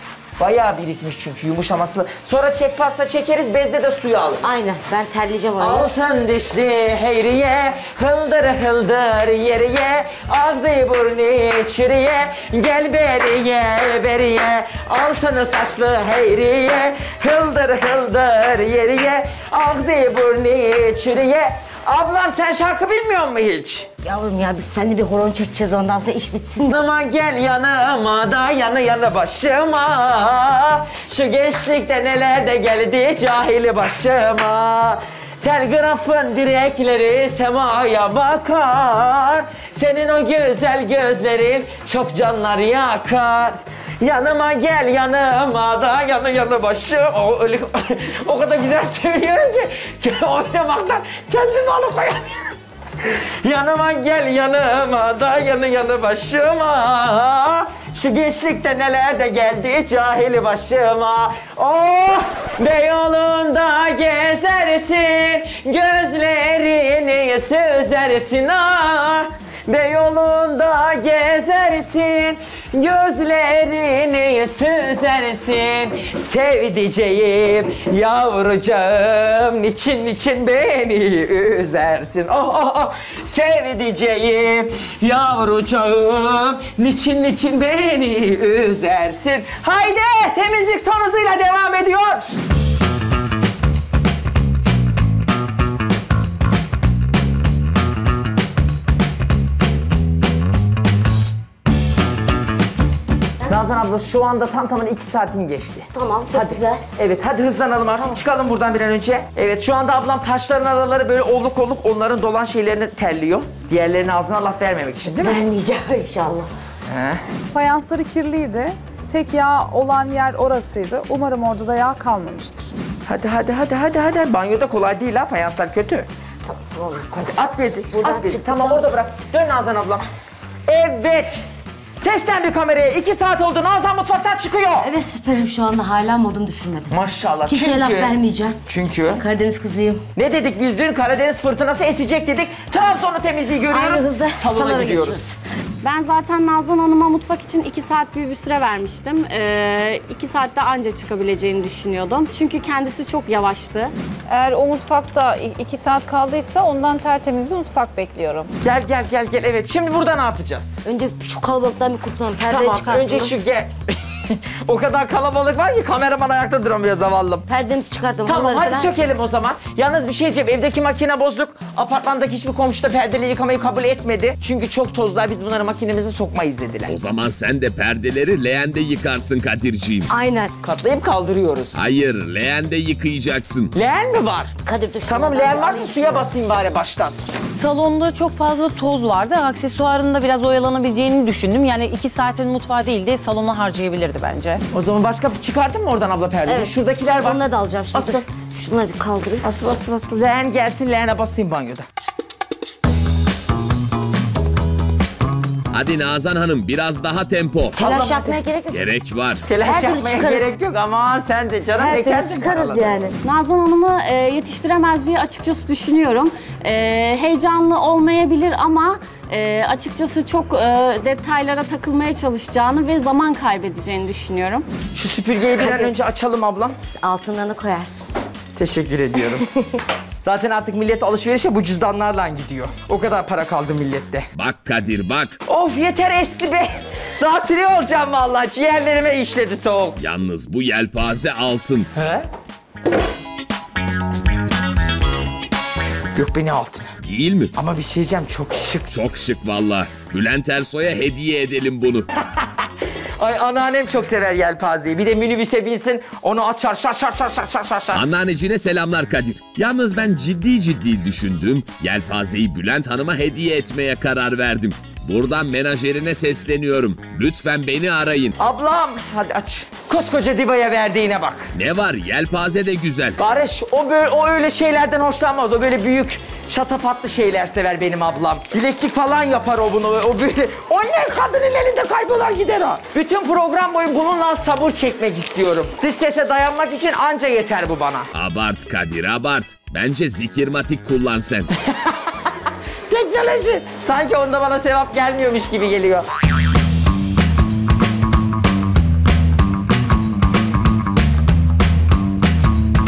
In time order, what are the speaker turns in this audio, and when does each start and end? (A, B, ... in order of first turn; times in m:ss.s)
0:00.4-0:04.6 A
0:04.4-0:05.9 B
0:05.6-0:23.9 A
0:24.0-0:26.8 B
0:26.7-1:32.4 A
1:43.4-1:55.4 A
1:45.9-1:46.8 B
1:55.1-1:56.5 B
1:56.9-1:57.2 A
1:57.5-2:02.7 C
2:03.0-2:06.1 A
2:06.7-2:09.0 B
2:07.3-2:10.1 A
2:10.7-2:11.4 A
2:12.0-2:14.9 A
2:14.8-2:16.9 B
2:16.9-2:18.1 A
2:17.4-2:20.0 B
2:18.7-2:19.2 A
2:20.1-2:25.2 A
2:23.7-2:25.4 B
2:25.8-2:33.9 D
2:34.3-2:38.5 E
2:38.6-2:40.8 A
2:40.8-2:43.3 B
2:42.5-2:43.7 A
2:44.3-2:47.4 A
2:47.4-2:49.0 B
2:48.2-2:56.9 A
2:56.9-3:00.1 F
3:00.1-3:00.5 B
3:00.6-3:01.8 A
3:01.7-3:03.7 F
3:03.7-3:04.5 A
3:04.6-3:06.3 B
3:05.0-3:07.3 A
3:07.5-3:14.6 G
3:14.7-3:17.4 A
3:16.4-3:19.5 B
3:17.9-3:18.2 A
3:19.4-3:21.8 A
3:25.7-3:27.8 F
3:27.7-3:28.8 B
3:27.8-3:28.4 A
3:28.7-3:29.4 F
3:29.5-3:33.0 A
3:29.6-3:30.5 B
3:31.7-3:33.1 B
3:33.2-3:44.7 D
3:44.9-3:46.8 A
3:45.6-3:45.9 B
3:46.9-3:48.0 B
3:48.6-3:49.4 A
3:50.2-3:54.3 A
3:54.4-3:55.4 F
3:55.4-4:00.0 A
4:00.0-4:01.9 F
4:01.9-4:02.2 A
4:06.1-4:06.9 A
4:07.0-4:07.5 F
4:07.6-4:08.9 A
4:08.9-4:12.0 F
4:13.2-4:18.0 A
4:17.9-4:28.3 F
4:28.4-4:31.5 A
4:31.5-4:33.2 F
4:33.2-4:48.1 A
4:48.1-4:51.5 F
4:52.9-4:56.1 A